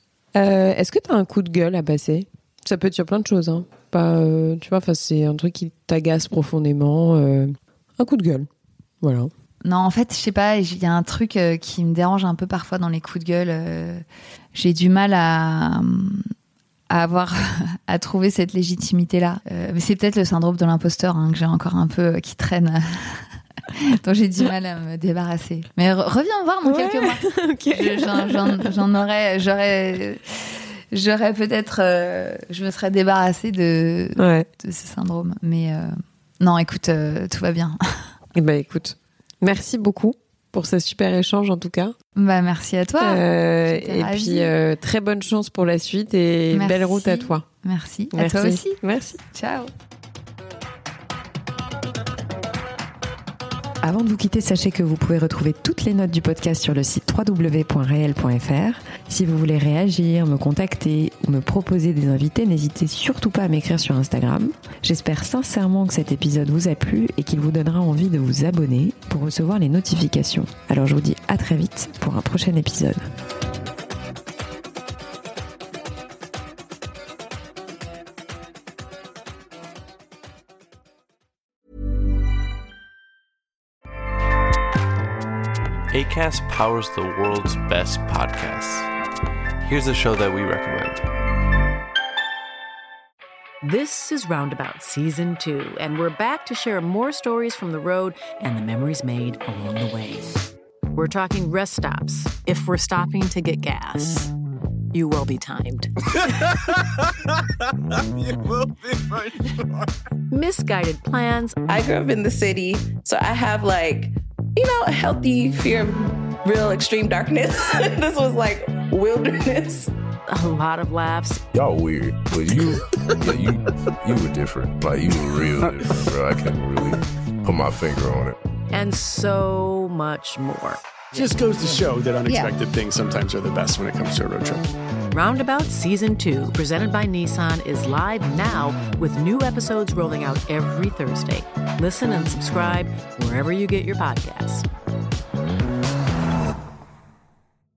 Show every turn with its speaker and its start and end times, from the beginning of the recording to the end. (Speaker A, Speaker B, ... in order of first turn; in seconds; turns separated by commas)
Speaker A: 0.3-8.5, Speaker A: 9.0-9.3, Speaker B: 9.7-14.0, Speaker B: 14.6-16.3, Speaker B: 16.9-30.3, Speaker A: 26.6-28.8, Speaker B: 30.9-37.8, Speaker A: 34.2-34.5, Speaker A: 38.3-42.0, Speaker B: 42.2-44.5, Speaker A: 43.0-47.5, Speaker B: 46.5-48.8, Speaker A: 48.1-49.2, Speaker B: 49.3-49.7, Speaker A: 53.8-73.1, Speaker C: 85.9-88.9, Speaker C: 89.7-91.0, Speaker D: 93.6-104.3, Speaker D: 104.9-105.9, Speaker D: 110.3-111.6, Speaker E: 111.7-119.9, Speaker D: 120.3-121.5, Speaker F: 121.5-128.4, Speaker D: 125.6-125.9, Speaker D: 128.7-130.8, Speaker G: 131.1-134.7, Speaker B: 132.3-132.5, Speaker D: 135.1-144.7